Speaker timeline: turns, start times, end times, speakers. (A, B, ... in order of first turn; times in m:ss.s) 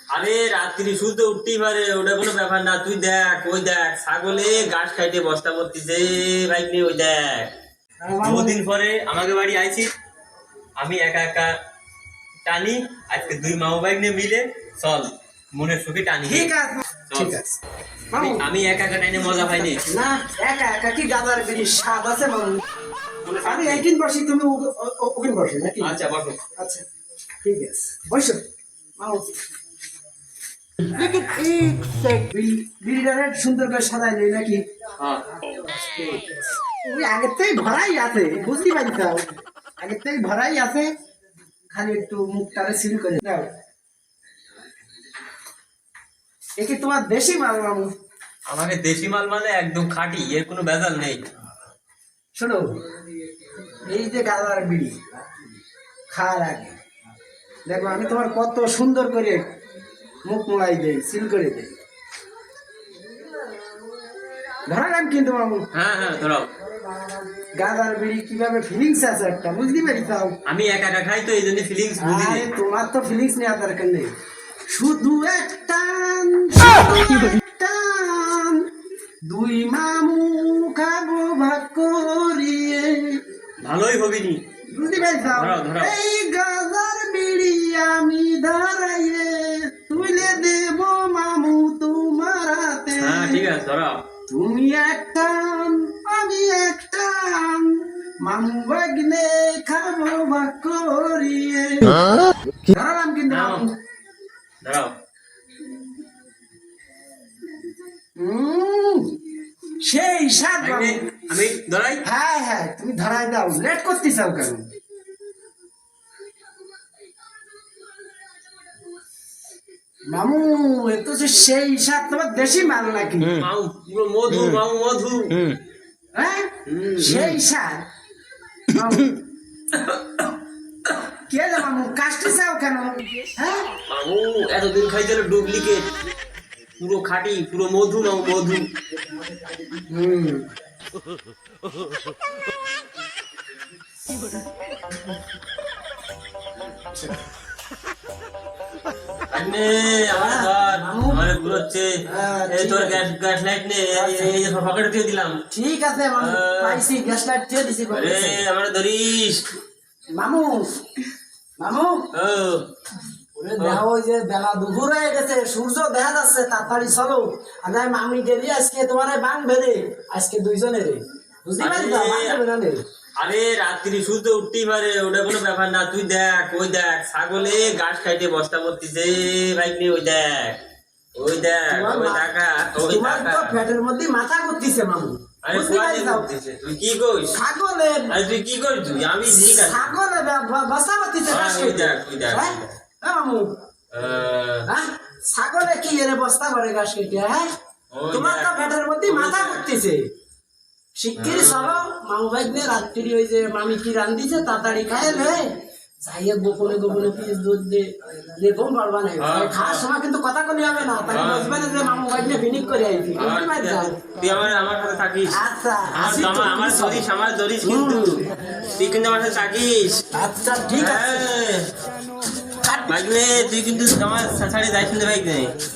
0:00.1-0:07.5 A
0:08.0-0:08.6 B
0:08.2-0:09.9 A
0:10.8-0:11.6 A
0:12.4-0:16.5 A
0:16.2-0:17.6 B
0:17.1-0:17.4 A
0:18.1-0:18.5 B
0:18.1-0:19.8 A
0:19.6-0:22.6 B
0:23.3-0:26.0 B
0:23.3-0:23.8 A
0:25.8-0:26.5 A
0:26.6-0:26.8 B
0:27.4-0:28.4 B
0:29.0-0:29.4 B
0:31.0-0:34.6 B
0:35.0-0:35.2 A
0:35.4-0:40.9 B
0:41.7-0:43.5 B
0:46.6-0:47.9 B
0:48.5-0:51.2 A
0:52.4-0:52.8 B
0:53.8-0:55.0 B
0:56.1-0:56.8 B
0:57.7-0:59.4 B
1:00.2-1:01.8 B
1:04.7-1:05.7 B
1:05.7-1:06.5 A
1:07.4-1:10.4 B
1:10.5-1:12.5 A
1:12.0-1:14.1 B
1:14.7-1:18.6 B
1:19.2-1:23.2 B
1:23.6-1:24.4 A
1:24.7-1:33.4 B
1:25.3-1:26.0 A
1:33.0-1:34.1 A
1:34.3-1:42.0 B
1:42.7-1:43.7 B
1:43.3-1:43.6 A
1:44.6-1:45.0 A
1:48.2-1:49.2 B
1:49.8-1:51.1 B
1:50.6-1:52.0 A
1:52.0-1:54.7 B
2:00.1-2:03.5 B
2:03.2-2:05.6 A
2:06.2-2:07.8 B
2:06.7-2:07.4 A
2:08.7-2:09.2 B
2:09.7-2:10.2 A
2:11.3-2:13.7 B
2:13.9-2:15.9 A
2:16.8-2:18.7 A
2:19.9-2:20.5 B
2:29.3-2:35.4 A
2:30.1-2:31.2 B
2:32.0-2:33.0 B
2:33.9-2:34.3 B
2:35.5-2:38.4 B
2:36.2-2:36.8 A
2:37.9-2:39.5 A
2:40.1-2:40.7 B
2:41.6-2:42.1 B
2:42.1-2:42.7 A
2:43.4-2:52.8 B
2:51.6-2:52.4 A
2:53.2-3:00.6 A
3:01.2-3:03.6 A
3:01.7-3:02.3 B
3:02.8-3:06.3 B
3:05.4-3:07.4 A
3:07.3-3:08.2 B
3:08.1-3:09.9 A
3:09.5-3:13.5 B
3:11.3-3:12.8 A
3:13.9-3:14.7 A
3:14.7-3:17.5 B
3:17.9-3:19.7 A
3:18.1-3:20.0 B
3:21.0-3:25.4 B
3:21.2-3:21.8 A
3:26.0-3:34.0 B
3:29.2-3:29.9 A
3:31.1-3:31.6 A
3:33.2-3:35.4 A
3:35.3-3:37.1 B
3:35.9-3:38.2 A
3:37.6-3:38.3 B
3:38.8-3:40.0 A
3:40.2-3:41.3 B
3:40.8-3:41.7 A
3:42.6-3:42.9 B
3:42.9-3:45.6 A